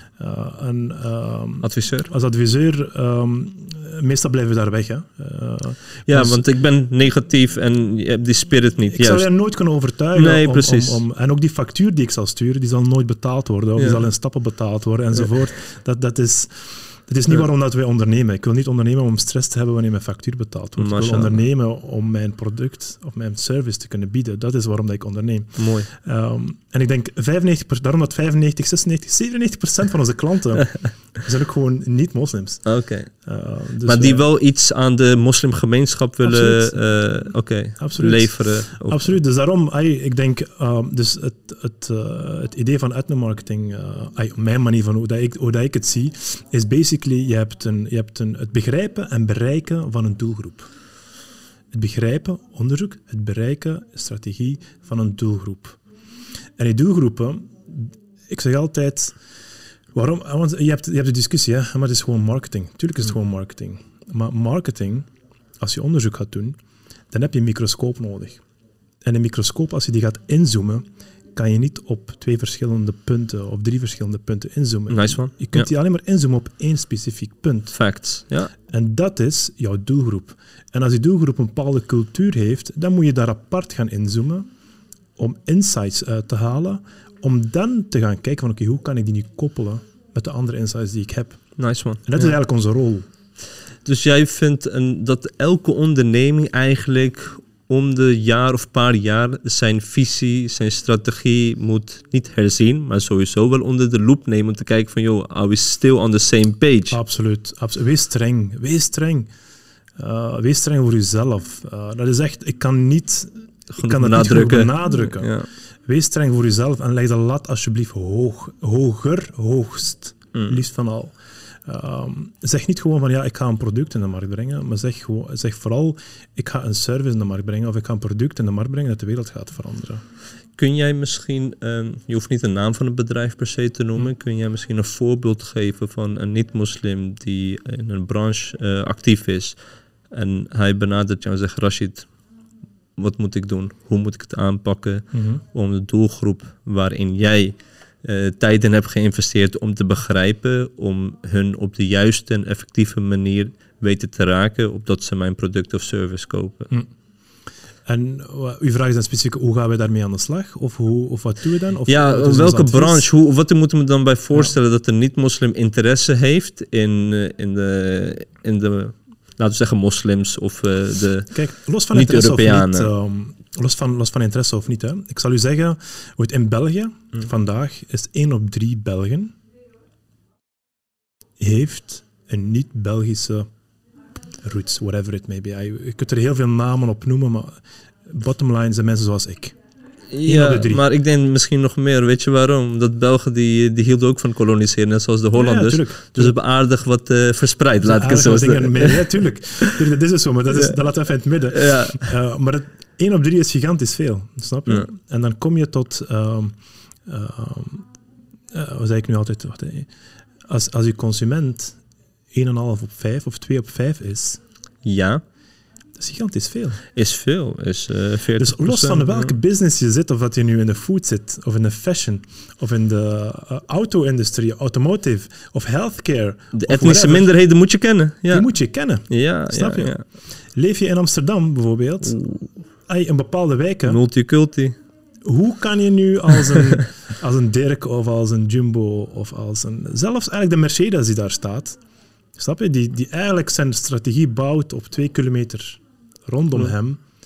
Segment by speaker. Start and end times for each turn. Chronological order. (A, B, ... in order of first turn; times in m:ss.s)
0:00.2-0:06.4 A
0:01.6-0:02.1 B
0:06.1-0:09.2 B
0:08.9-0:34.2 A
0:10.1-0:11.0 B
0:20.8-0:21.4 B
0:25.6-0:25.9 B
0:32.6-0:33.1 B
0:33.8-0:39.2 B
0:36.2-0:36.8 A
0:37.8-0:50.7 A
0:51.7-0:55.8 A
0:56.6-0:59.2 A
0:59.9-1:06.6 A
1:07.1-1:08.4 A
1:09.0-1:10.8 A
1:11.3-1:17.8 A
1:14.9-1:15.7 B
1:17.7-1:18.5 B
1:18.7-1:24.4 A
1:25.2-1:31.5 A
1:31.6-1:32.3 B
1:32.0-1:33.1 A
1:33.8-1:47.0 B
1:46.9-1:49.3 A
1:50.0-2:01.1 A
1:53.7-1:55.5 B
2:01.6-2:10.0 A
2:10.6-2:19.6 B
2:20.1-2:22.1 B
2:23.0-2:36.7 B
2:25.1-2:25.4 A
2:37.8-2:43.0 A
2:41.9-2:51.3 B
2:51.3-2:59.3 A
2:51.9-2:52.9 B
3:01.4-3:03.5 A
3:04.4-3:09.5 A
3:10.1-3:19.0 B
3:10.2-3:10.8 A
3:15.3-3:16.3 A
3:17.8-3:27.8 A
3:21.5-3:22.1 B
3:28.5-3:29.9 A
3:30.5-3:31.8 A
3:32.3-3:34.4 A
3:34.8-3:35.2 B
3:36.0-3:36.8 A
3:36.9-3:39.3 B
3:38.4-3:47.3 A
3:46.5-3:48.5 B
3:48.3-3:52.2 A
3:49.1-3:50.0 B
3:52.0-3:52.5 B
3:52.8-3:54.0 A
3:53.9-3:54.7 B
3:55.2-4:01.8 A
4:02.4-4:07.0 A